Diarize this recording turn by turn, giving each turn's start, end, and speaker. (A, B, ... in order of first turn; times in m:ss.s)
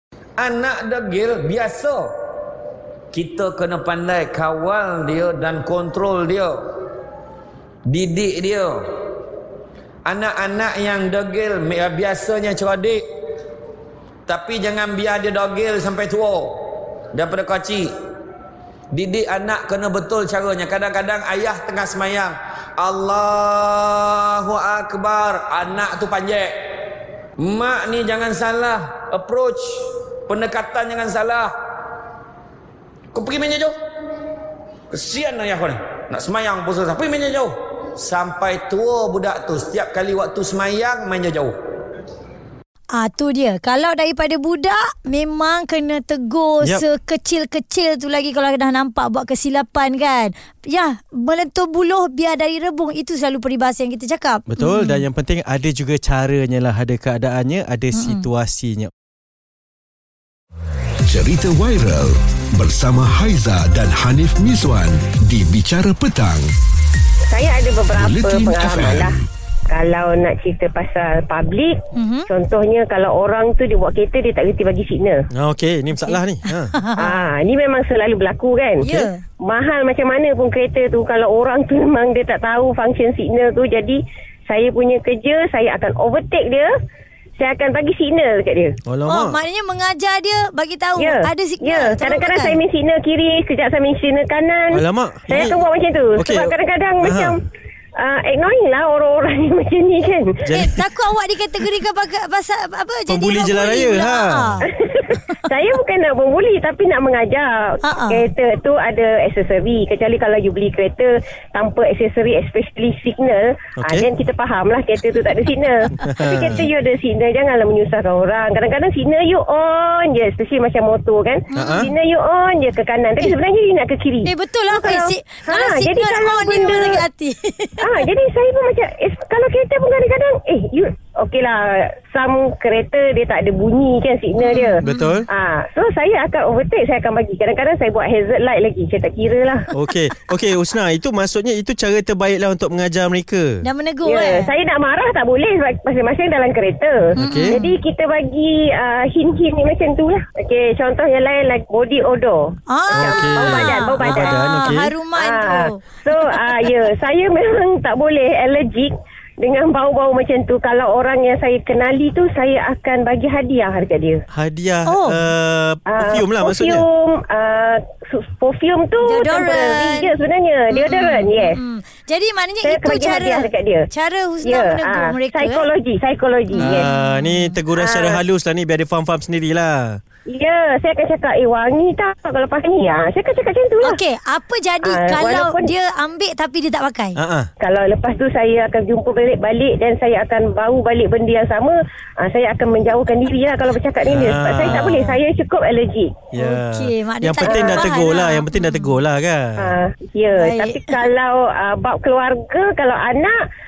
0:00.4-0:02.1 A
0:03.1-0:06.6 A
0:07.8-0:08.8 A
0:10.0-0:13.0 A
0:14.3-0:16.6 A
0:17.1-0:17.9 A
0:18.9-0:26.6 A
0:27.4-0:29.7 A
0:30.3-0:31.5 A
0:33.1-0:33.7 A
0:34.9-0:41.6 A
0:42.9-0:55.0 B
0:46.6-0:46.9 C
0:54.5-0:58.9 C
0:57.9-0:58.2 B
1:01.0-1:06.4 D
1:01.3-1:01.6 C
1:03.0-1:04.4 C
1:07.3-1:09.2 E
1:07.9-1:09.2 D
1:09.7-1:15.2 E
1:11.9-1:12.3 B
1:15.3-1:16.8 C
1:15.9-1:17.2 B
1:17.0-1:26.7 E
1:18.8-1:19.2 B
1:27.4-1:28.8 E
1:28.8-1:29.4 C
1:29.1-1:32.6 B
1:31.0-1:37.4 E
1:34.7-1:35.6 C
1:36.2-1:37.4 C
1:38.0-1:40.6 E
1:40.5-1:40.8 C
1:40.5-1:45.4 B
1:43.1-1:44.6 C
1:44.8-2:07.0 E
1:47.8-1:48.2 B
1:53.8-1:54.1 C
1:56.0-1:56.6 C
2:01.5-2:01.9 B
2:01.6-2:01.9 C
2:04.2-2:08.0 B
2:07.8-2:19.6 E
2:14.4-2:15.2 B
2:14.8-2:15.3 C
2:19.7-2:23.6 C
2:23.6-2:24.5 B
2:24.0-2:44.2 E
2:27.2-2:27.7 B
2:27.2-2:27.6 C
2:32.7-2:36.4 B
2:32.9-2:34.9 C
2:44.3-2:46.8 C
2:44.9-2:45.2 B
2:45.9-2:51.6 E
2:49.0-2:50.1 B
2:50.7-2:55.7 B
2:52.6-2:53.9 E
2:54.4-2:56.9 E
2:56.6-2:57.6 B
2:56.6-3:00.0 C
2:57.7-2:58.2 E
3:00.3-3:04.0 E
3:03.8-3:07.2 B
3:04.8-3:05.7 E
3:07.2-3:07.5 C
3:07.6-3:16.1 E
3:14.1-3:14.9 C
3:16.3-3:19.6 C
3:16.3-3:19.0 B
3:17.4-3:18.0 E
3:19.6-3:23.4 E
3:20.3-3:21.0 B